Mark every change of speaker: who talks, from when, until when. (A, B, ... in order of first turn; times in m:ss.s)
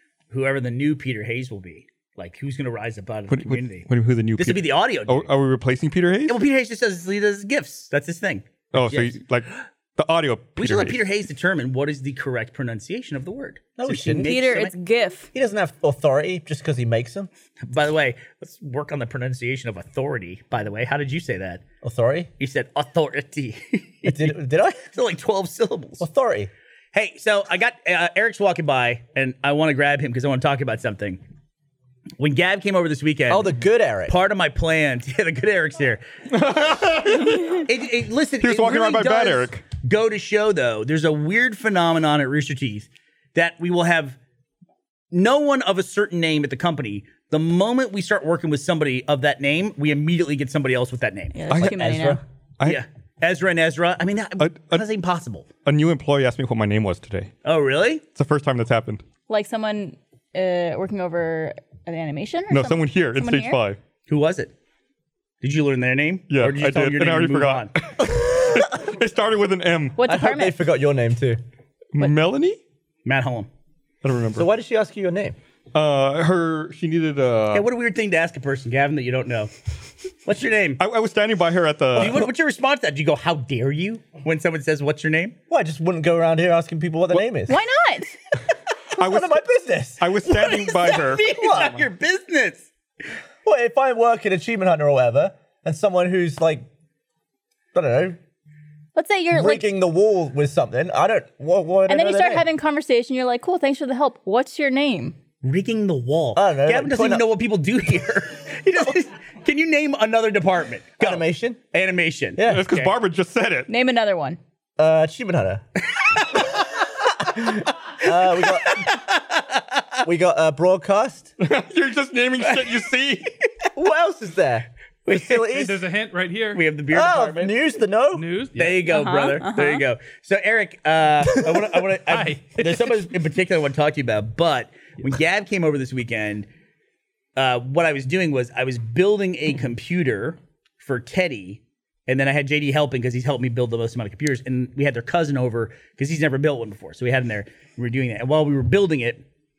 0:00.3-0:05.3 A
0:03.3-0:06.4 B
0:06.3-0:09.2 A
0:08.7-0:11.0 B
0:10.6-0:14.8 A
0:13.8-0:14.6 C
0:14.1-0:15.3 D
0:15.3-0:17.3 C
0:17.6-0:21.6 A
0:21.8-0:22.3 C
0:22.4-0:24.4 A
0:24.0-0:24.9 C
0:24.9-0:26.0 A
0:26.0-0:26.5 C
0:26.9-0:31.2 A
0:32.2-0:33.5 A
0:33.3-0:34.2 C
0:34.1-0:36.0 A
0:36.3-0:37.7 B
0:37.5-0:44.2 A
0:38.4-0:39.6 B
0:45.1-0:51.5 A
0:51.3-0:52.2 D
0:51.5-0:51.8 B
0:51.5-0:52.2 C
0:52.6-0:55.5 A
0:54.4-0:54.8 B
0:55.6-0:57.3 B
0:57.4-0:58.0 A
0:58.1-0:59.0 B
0:59.3-1:03.6 D
1:02.5-1:03.8 B
1:04.1-1:04.5 A
1:05.4-1:07.7 A
1:06.3-1:10.0 B
1:10.0-1:10.6 D
1:10.0-1:11.4 C
1:11.9-1:12.6 B
1:13.0-1:13.5 A
1:14.0-1:14.5 B
1:14.3-1:15.4 C
1:15.7-1:17.7 B
1:17.5-1:19.5 A
1:20.2-1:20.8 A
1:20.8-1:22.3 B
1:21.9-1:25.4 A
1:25.5-1:27.6 C
1:27.4-1:28.1 D
1:29.0-1:29.4 B
1:29.0-1:30.1 C
1:30.0-1:31.8 B
1:30.2-1:32.7 A
1:33.4-1:36.7 C
1:37.7-1:38.2 C
1:39.0-1:39.7 D
1:39.3-1:42.4 C
1:41.9-1:45.2 D
1:45.4-1:52.9 A
1:46.3-1:47.3 C
1:51.0-1:51.6 C
1:52.4-1:52.7 C
1:52.5-1:53.7 B
1:53.7-1:54.4 D
1:54.8-1:55.6 C
1:56.1-1:56.7 A
1:57.3-1:59.8 A
1:57.4-1:58.9 C
2:00.0-2:01.3 C
2:01.4-2:03.3 B
2:02.4-2:02.8 A
2:03.8-2:05.8 C
2:05.5-2:06.6 E
2:06.5-2:07.6 A
2:06.9-2:08.2 C
2:08.1-2:08.8 E
2:08.6-2:16.5 A
2:08.8-2:09.8 D
2:12.1-2:13.0 E
2:17.4-2:29.2 A